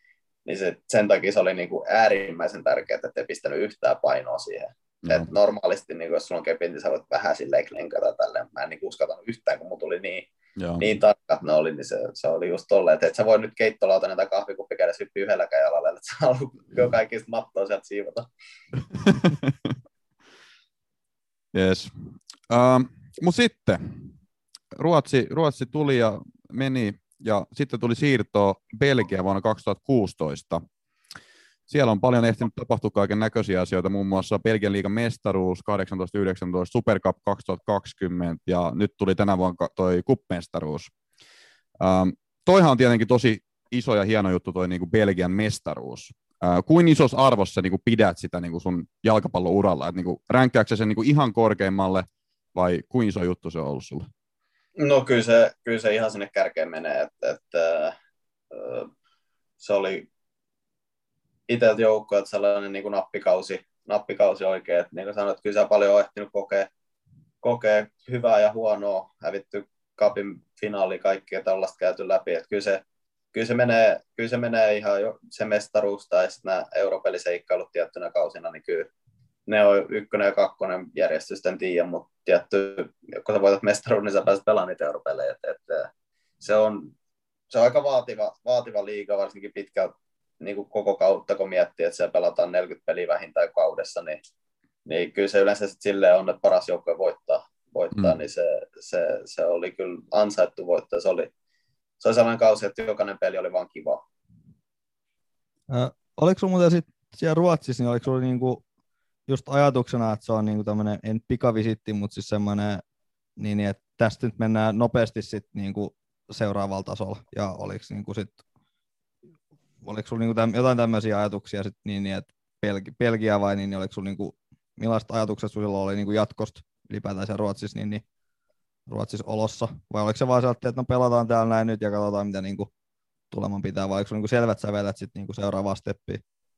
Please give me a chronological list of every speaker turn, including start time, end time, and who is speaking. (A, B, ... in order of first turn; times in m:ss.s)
0:00.4-0:10.3 A
0:10.6-0:10.9 B
0:10.8-0:18.3 A
0:19.0-0:19.7 B
0:21.5-0:24.1 B
0:24.8-0:30.6 B
0:31.7-0:40.9 B
0:41.8-0:54.1 B
0:54.8-0:57.9 A
0:58.5-0:58.9 A
0:59.6-1:00.1 A
1:01.5-1:06.7 A
1:07.4-1:12.8 A
1:13.3-1:18.9 A
1:19.5-1:26.9 A
1:27.5-1:34.2 A
1:34.9-1:41.3 A
1:42.0-1:44.0 A
1:45.7-1:48.6 C
1:49.3-1:52.8 C
1:53.4-1:58.4 C
1:59.8-2:08.0 C
2:08.9-2:12.7 C
2:13.3-2:16.2 C